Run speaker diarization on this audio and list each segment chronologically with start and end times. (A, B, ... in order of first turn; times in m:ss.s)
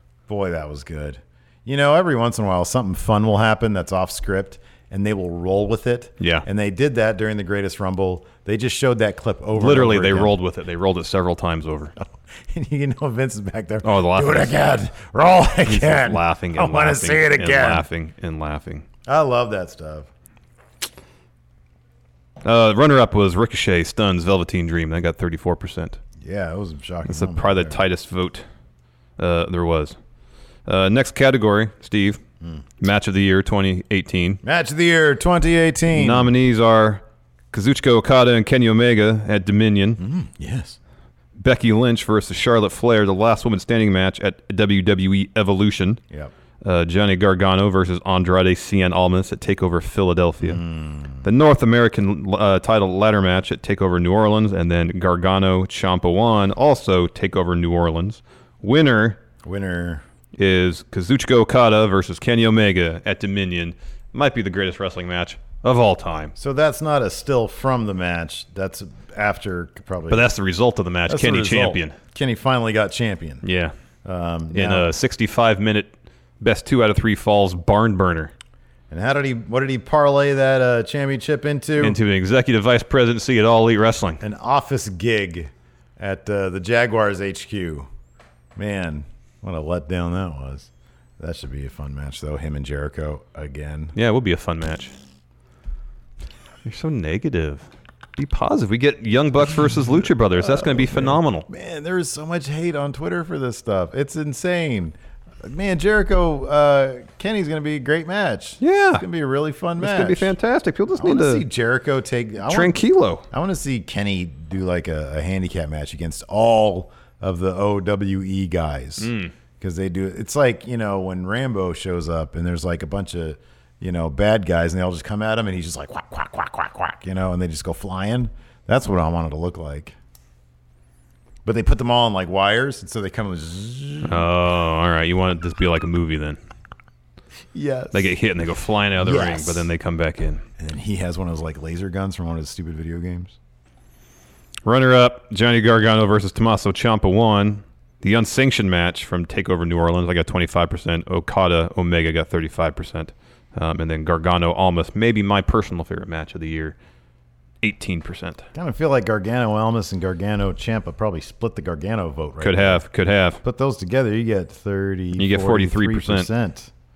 0:00.3-0:10.3 A
0:06.2-0:06.5 B
0:09.6-0:11.9 B
0:12.0-0:17.9 A
0:13.8-0:14.6 B
0:15.7-0:18.9 B
0:19.1-0:20.1 A
0:22.4-0:26.0 B
0:26.2-0:27.8 A
0:27.1-0:28.4 B
0:29.2-0:30.0 B
0:30.7-0:32.2 B
0:32.8-0:34.4 B
0:34.4-0:36.3 A
0:35.9-0:40.0 B
0:40.0-0:40.8 A
0:41.4-0:46.0 B
0:46.6-0:50.6 B
0:50.4-0:51.2 A
0:51.2-0:59.2 B
0:59.4-1:00.0 A
1:00.4-1:06.3 B
1:06.4-1:10.3 A
1:10.1-1:12.0 B
1:11.1-1:13.4 A
1:13.4-1:13.7 B
1:14.0-1:14.9 A
1:14.5-1:18.3 B
1:18.9-1:22.0 A
1:21.8-1:24.2 B
1:24.2-1:27.9 A
1:28.6-1:34.0 A
1:34.0-1:34.9 B
1:36.6-1:41.5 B
1:40.4-1:50.3 A
1:48.6-1:49.0 B
1:49.8-1:51.4 B
1:51.0-1:52.8 A
1:52.5-1:53.2 B
1:53.3-2:10.0 A
1:59.0-1:59.3 B
2:11.4-2:14.3 A
2:14.0-2:16.4 B
2:17.5-2:18.1 A
2:17.9-2:20.4 B
2:19.0-2:19.7 A
2:20.6-2:23.4 A
2:24.6-2:36.8 B
2:37.6-2:38.4 B
2:38.6-2:42.8 A
2:42.4-2:43.4 B
2:43.4-2:46.7 A
2:45.2-2:46.3 B